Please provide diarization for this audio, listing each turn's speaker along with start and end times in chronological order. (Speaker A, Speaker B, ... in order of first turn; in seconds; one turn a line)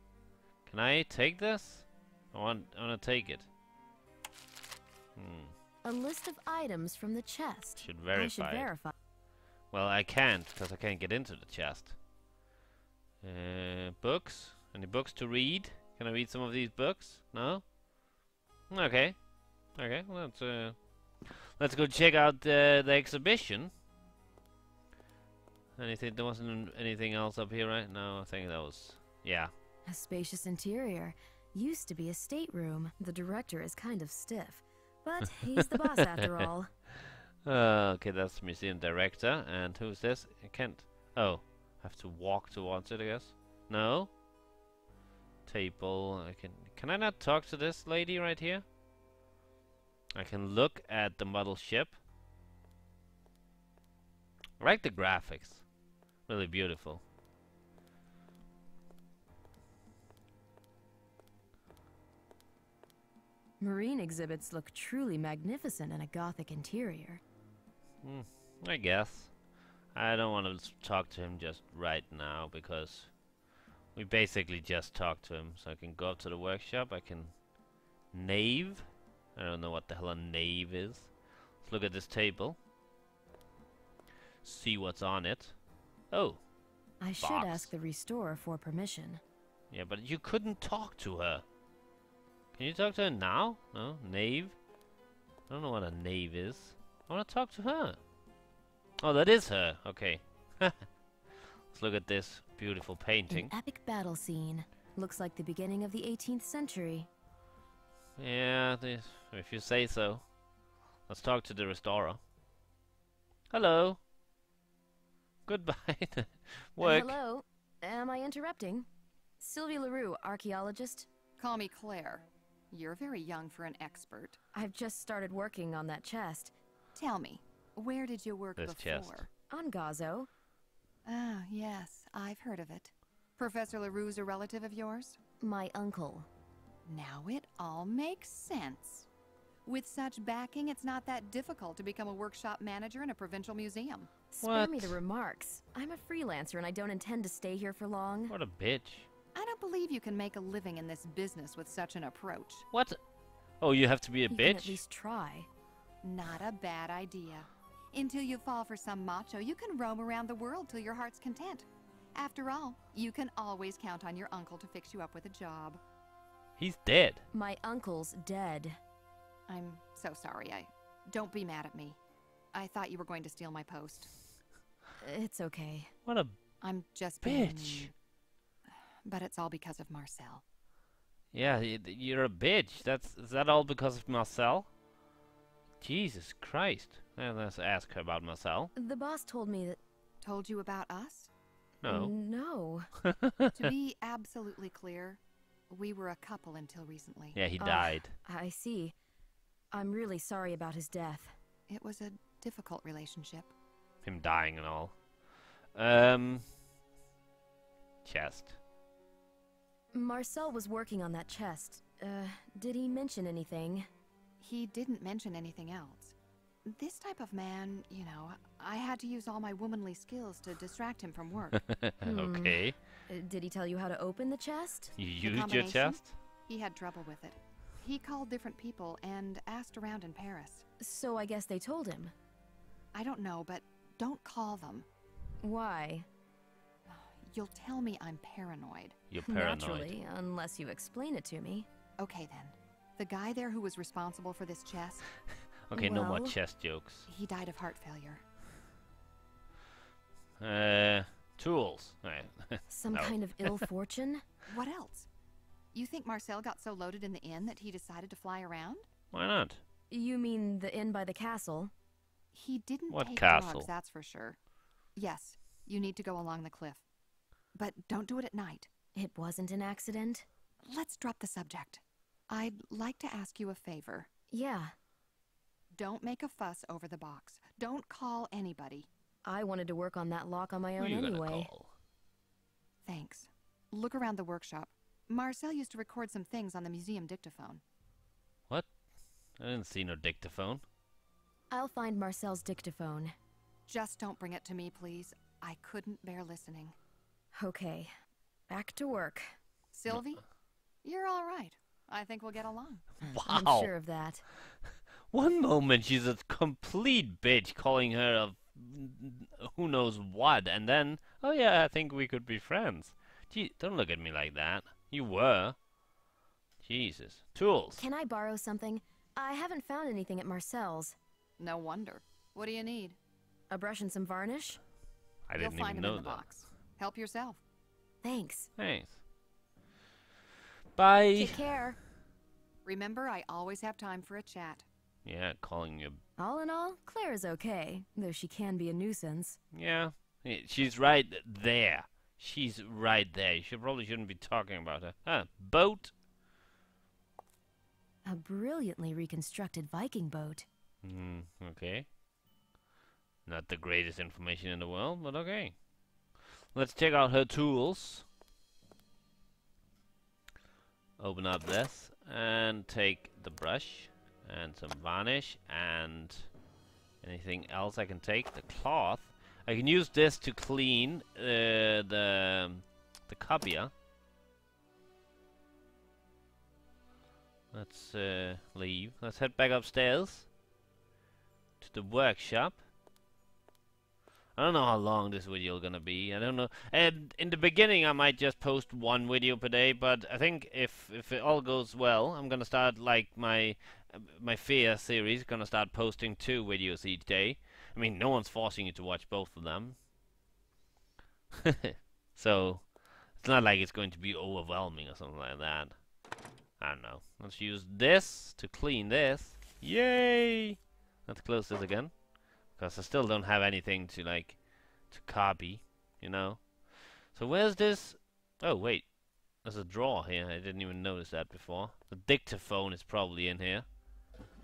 Speaker A: 0.7-3.5
Speaker A: 5.2-5.5
Speaker B: 5.8-8.9
Speaker A: 7.8-8.7
Speaker A: 9.7-11.9
Speaker A: 13.2-17.6
Speaker A: 18.7-19.2
Speaker A: 19.8-23.7
Speaker A: 25.8-29.5
Speaker B: 29.9-36.7
Speaker A: 35.6-36.4
Speaker A: 37.4-44.1
Speaker A: 45.5-48.6
Speaker A: 50.1-52.0
Speaker A: 54.6-55.6
Speaker A: 56.3-57.0
Speaker B: 63.6-67.2
Speaker A: 68.0-69.3
Speaker A: 69.9-73.1
Speaker A: 73.9-77.3
Speaker A: 78.1-81.1
Speaker A: 81.6-82.6
Speaker A: 84.4-85.5
Speaker A: 86.1-86.4
Speaker B: 87.0-89.2
Speaker A: 87.2-87.7
Speaker A: 89.7-91.4
Speaker A: 92.5-94.5
Speaker A: 95.5-98.0
Speaker A: 99.0-100.9
Speaker A: 101.7-103.5
Speaker B: 103.3-107.1
Speaker A: 108.2-110.2
Speaker A: 111.1-112.2
Speaker A: 113.5-114.0
Speaker A: 115.5-117.2
Speaker B: 116.8-118.8
Speaker B: 119.4-121.1
Speaker C: 121.4-124.4
Speaker B: 124.5-126.5
Speaker C: 126.9-129.3
Speaker A: 128.6-129.3
Speaker B: 129.5-130.3
Speaker C: 131.0-135.2
Speaker B: 135.4-136.3
Speaker C: 136.8-139.1
Speaker C: 139.7-144.1
Speaker B: 144.3-148.3
Speaker A: 144.4-145.0
Speaker A: 148.3-149.1
Speaker C: 149.3-152.7
Speaker A: 152.7-153.0
Speaker A: 153.6-154.8
Speaker B: 154.3-155.5
Speaker C: 156.0-165.8
Speaker A: 166.6-167.2
Speaker B: 167.3-168.8
Speaker C: 169.5-172.0
Speaker C: 172.5-174.1
Speaker B: 175.0-175.9
Speaker A: 176.1-176.3
Speaker C: 176.6-177.9
Speaker A: 177.2-177.9
Speaker C: 179.0-180.4
Speaker A: 181.3-184.7
Speaker A: 185.8-188.7
Speaker B: 188.7-189.8
Speaker C: 190.2-191.3
Speaker A: 191.8-192.1
Speaker B: 191.9-192.9
Speaker A: 193.0-193.5
Speaker C: 193.5-197.4
Speaker A: 197.3-198.1
Speaker B: 197.6-198.9
Speaker B: 199.7-201.3
Speaker C: 201.7-203.5
Speaker A: 204.0-204.9
Speaker A: 205.7-206.4
Speaker A: 208.0-208.6
Speaker B: 209.9-213.9
Speaker C: 214.4-216.1
Speaker C: 216.7-221.6
Speaker A: 221.6-222.8
Speaker B: 222.0-225.0
Speaker A: 224.9-226.1
Speaker C: 225.2-230.6
Speaker B: 230.8-232.1
Speaker C: 232.9-234.8
Speaker B: 235.4-236.1
Speaker C: 236.9-239.0
Speaker A: 239.1-239.9
Speaker B: 239.2-241.7
Speaker C: 242.0-245.1
Speaker A: 245.7-247.1
Speaker B: 245.7-246.4
Speaker C: 247.1-248.2
Speaker A: 250.4-253.6
Speaker B: 252.7-254.2
Speaker C: 254.5-255.1
Speaker C: 255.7-258.8
Speaker A: 259.1-259.6
Speaker B: 259.9-261.7
Speaker C: 262.3-264.4
Speaker A: 262.9-263.7
Speaker C: 264.9-266.8
Speaker C: 267.5-268.7
Speaker B: 268.9-270.2
Speaker C: 270.6-274.1
Speaker B: 274.3-274.7
Speaker C: 275.8-278.9
Speaker B: 279.2-281.5
Speaker A: 280.8-281.7
Speaker C: 282.8-287.6
Speaker A: 289.4-290.6
Speaker B: 291.5-293.1
Speaker C: 293.7-296.7
Speaker B: 297.3-297.9
Speaker B: 298.5-299.3
Speaker C: 299.7-300.2
Speaker C: 300.8-302.9
Speaker A: 303.0-303.7
Speaker B: 303.0-304.2
Speaker A: 305.1-315.6
Speaker A: 316.6-317.9
Speaker B: 317.8-321.0
Speaker C: 321.4-323.0
Speaker B: 323.5-324.6
Speaker A: 325.3-326.2
Speaker C: 325.4-327.4
Speaker B: 328.0-328.5
Speaker A: 328.6-329.0
Speaker A: 330.8-331.5
Speaker B: 331.1-331.8
Speaker C: 332.6-334.6
Speaker A: 335.0-336.0
Speaker B: 336.2-339.4
Speaker A: 339.5-345.9
Speaker B: 348.1-350.4
Speaker A: 350.8-351.9
Speaker A: 353.2-355.5
Speaker A: 356.5-358.1
Speaker A: 361.0-366.3
Speaker A: 367.0-373.7
Speaker A: 377.5-380.3
Speaker A: 381.6-382.6
Speaker A: 384.4-399.8
Speaker A: 401.4-405.8
Speaker A: 406.6-411.9
Speaker A: 412.6-414.4
Speaker A: 414.9-416.4
Speaker A: 417.1-418.9
Speaker A: 419.4-423.6